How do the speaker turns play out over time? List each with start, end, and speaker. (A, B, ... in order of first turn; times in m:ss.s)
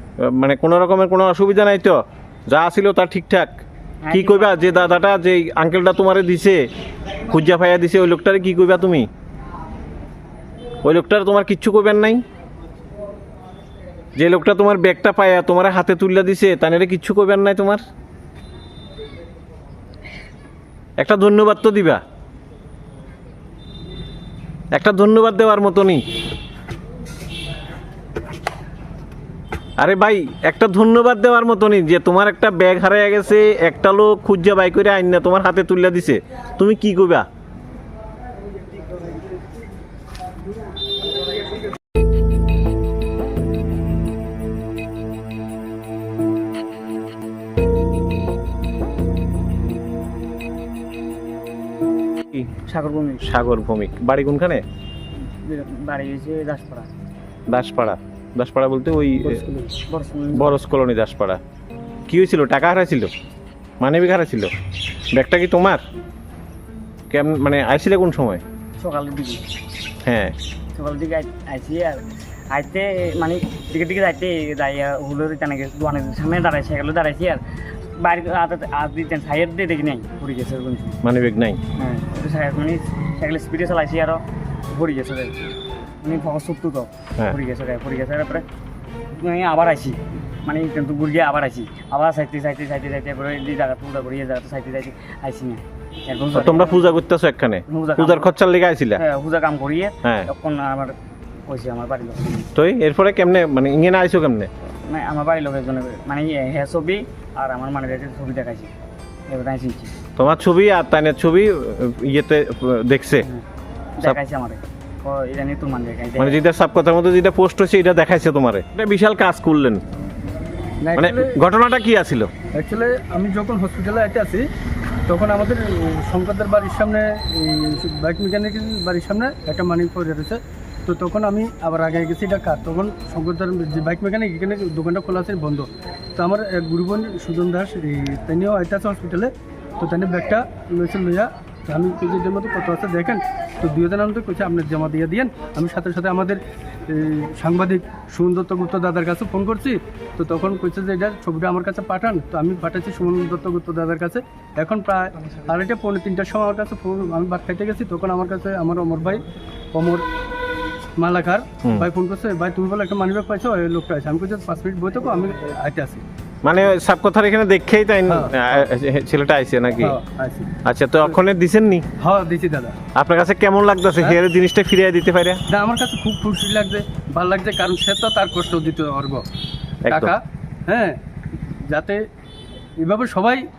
0:00.2-0:03.5 A
0:04.0-0:04.6 B
0:04.1-0:06.6 A
0:07.3-0:09.1 A
0:10.8-0:12.2 A
0:14.2-0:17.8 A
0:21.0-0:22.0 A
0:24.7-0:26.0 A
0:29.8-0:37.3 A
0:52.7-0:53.3 B
0:53.2-0:54.6 A
0:55.4-0:56.9 B
0:57.5-0:59.4 A
0:59.2-0:59.7 C
0:59.9-1:00.6 B
1:00.4-1:01.4 A
1:02.1-1:03.1 A
1:03.8-1:04.5 A
1:05.1-1:05.8 A
1:07.1-1:08.4 A
1:08.8-1:09.4 B
1:10.0-1:10.3 A
1:10.8-1:17.4 B
1:18.0-1:21.0 B
1:21.0-1:21.6 A
1:21.8-1:25.4 B
1:26.0-1:28.4 B
1:29.2-1:37.0 B
1:36.3-1:39.0 A
1:37.7-1:38.3 B
1:39.0-1:41.0 B
1:40.0-1:40.3 A
1:41.5-1:42.5 B
1:42.6-1:44.5 A
1:44.9-1:48.7 B
1:49.3-1:49.9 B
1:50.2-1:53.3 A
1:54.0-1:56.4 B
1:56.2-1:59.8 A
2:00.8-2:01.4 C
2:01.0-2:02.3 A
2:02.5-2:04.4 C
2:05.1-2:40.0 C
2:41.0-2:46.0 C
2:46.4-2:50.0 A
2:48.1-2:48.4 C
2:49.8-2:50.5 C
2:50.6-2:51.9 A
2:52.0-2:52.8 C
2:53.0-2:55.4 A
2:55.5-2:59.2 C
2:59.8-3:00.1 A
2:59.9-3:01.0 C
3:01.7-3:02.0 C
3:02.8-3:03.4 C